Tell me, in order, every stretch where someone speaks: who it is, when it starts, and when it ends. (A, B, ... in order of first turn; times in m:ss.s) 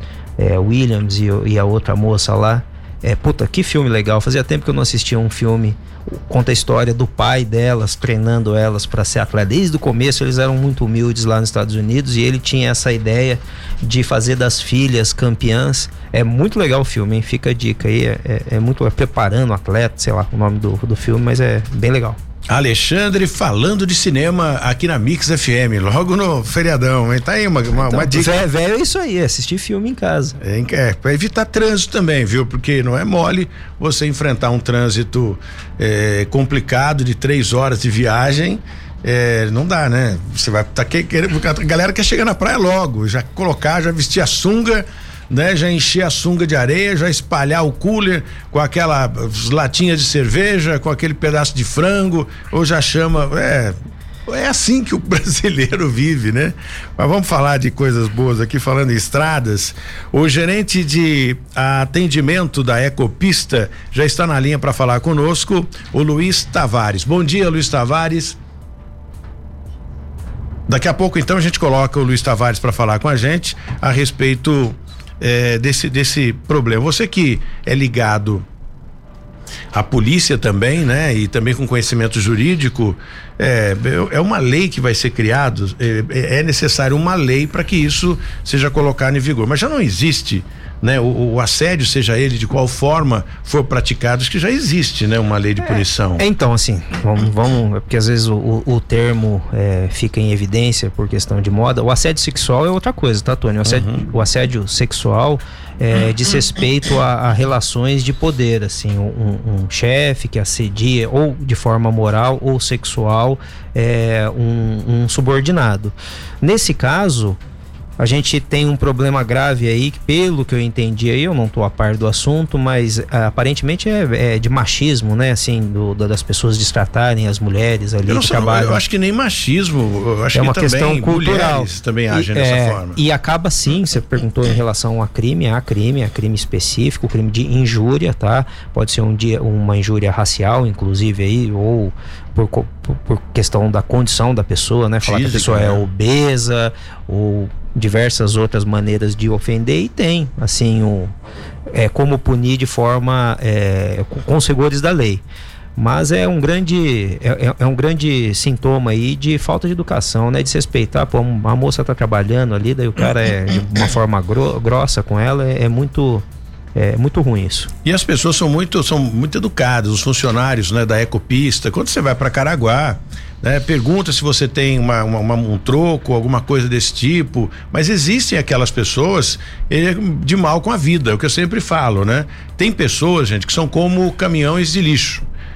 0:00.4-0:22.2 A
0:22.5-0:28.4 B
0:27.7-0:30.4 A
0:30.4-1:08.4 B
1:10.7-1:18.4 B
1:19.7-1:36.2 B
1:35.6-1:57.4 A
1:43.6-1:44.0 B
1:58.0-2:08.8 A
2:08.1-2:13.0 B
2:10.3-2:31.1 A
2:25.0-2:25.8 B
2:31.7-2:35.2 A
2:35.8-2:46.2 A
2:46.8-2:47.7 A
2:47.8-3:05.2 B